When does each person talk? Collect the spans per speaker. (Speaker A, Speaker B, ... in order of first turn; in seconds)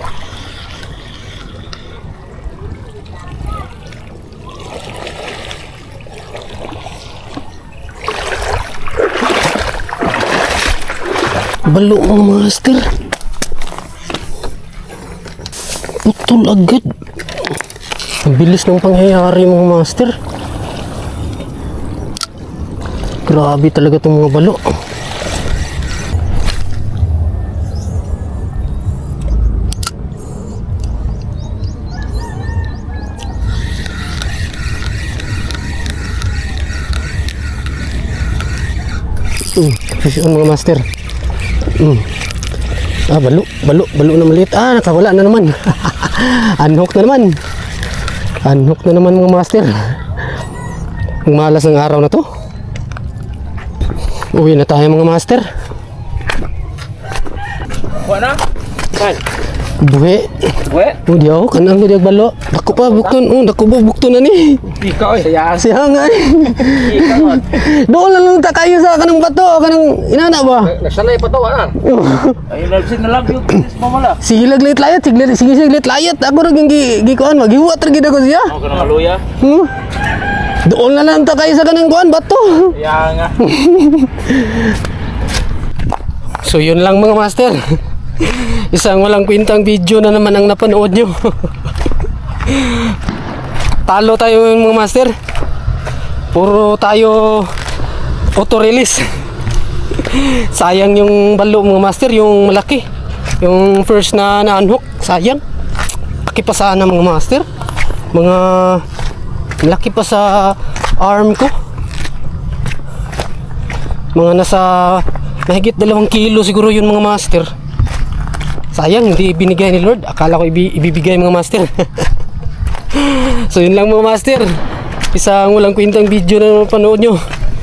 Speaker A: 11.6-12.9, 16.0-16.9, 18.2-20.2, 23.2-24.8, 39.5-40.9, 41.8-42.1, 43.1-47.4, 48.4-50.0, 51.2-52.3, 54.3-55.5, 59.8-71.0, 71.7-72.6, 74.1-79.7, 80.6-84.7, 86.4-91.5, 92.5-92.9, 93.8-95.1, 96.3-97.5, 98.3-99.1, 99.9-102.8, 103.4-105.4, 106.2-107.5, 108.1-108.8, 109.6-111.5, 114.1-117.5, 118.7-122.1, 122.9-124.5, 125.1-127.2
Speaker B: 64.9-65.3, 70.9-71.7, 72.6-74.1, 78.7-79.2